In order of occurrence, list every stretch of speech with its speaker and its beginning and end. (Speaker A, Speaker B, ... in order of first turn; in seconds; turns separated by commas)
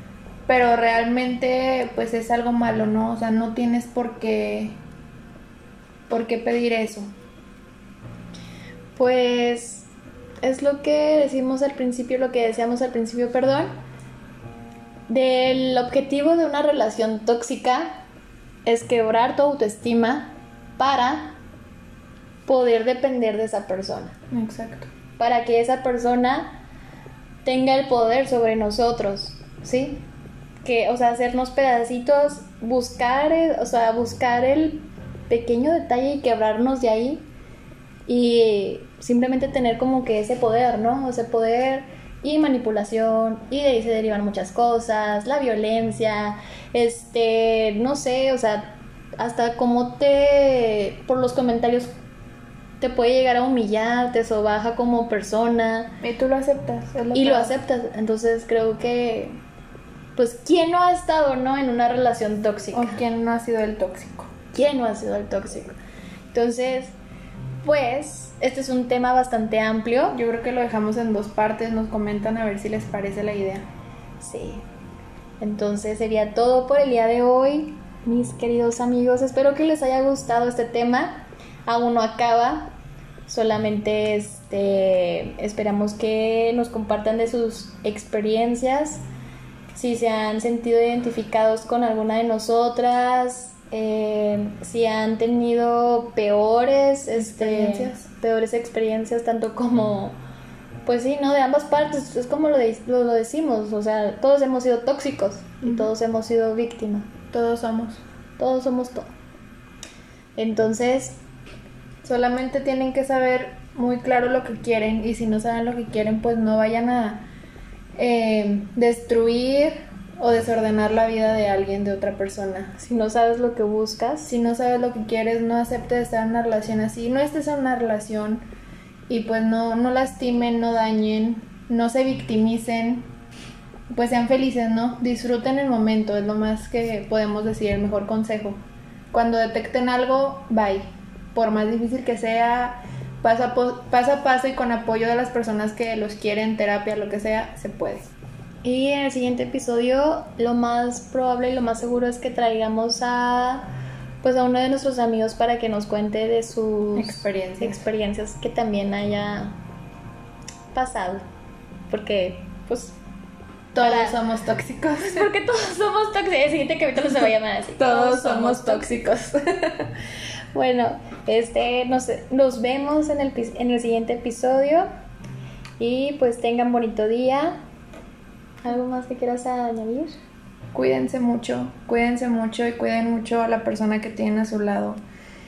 Speaker A: 0.5-4.8, Speaker A: 6.1-7.1, Speaker B: 9.0-9.9, Speaker B: 10.4-13.7, Speaker B: 15.1-17.9, Speaker B: 18.6-21.4, Speaker B: 22.4-24.1, Speaker A: 24.3-24.9, Speaker B: 25.2-26.6, Speaker B: 27.4-30.0, Speaker B: 30.6-37.2, Speaker B: 38.1-51.9, Speaker B: 52.8-55.9, Speaker A: 56.0-57.5, Speaker B: 57.1-59.4, Speaker B: 60.1-63.0, Speaker A: 62.7-64.3, Speaker B: 64.5-65.7, Speaker B: 66.3-66.9, Speaker B: 67.6-70.2, Speaker A: 70.1-73.7, Speaker B: 74.2-74.6, Speaker B: 75.4-82.7, Speaker B: 83.3-89.0, Speaker B: 89.7-100.2, Speaker A: 97.2-98.0, Speaker B: 100.8-107.1, Speaker A: 105.6-105.9, Speaker A: 107.3-108.0, Speaker B: 108.4-109.1, Speaker B: 110.4-111.2, Speaker A: 112.0-117.3, Speaker A: 118.0-122.7, Speaker B: 122.8-124.3, Speaker A: 124.3-128.4, Speaker A: 129.1-133.1, Speaker A: 133.9-148.1, Speaker B: 148.6-153.7, Speaker B: 154.2-159.6, Speaker A: 156.9-157.8, Speaker B: 160.7-161.2, Speaker B: 161.9-162.9, Speaker A: 163.7-165.3, Speaker B: 163.8-164.2, Speaker B: 165.0-169.4, Speaker A: 167.8-169.3, Speaker B: 170.5-174.9, Speaker B: 175.8-177.6, Speaker B: 178.6-180.2, Speaker A: 180.7-185.0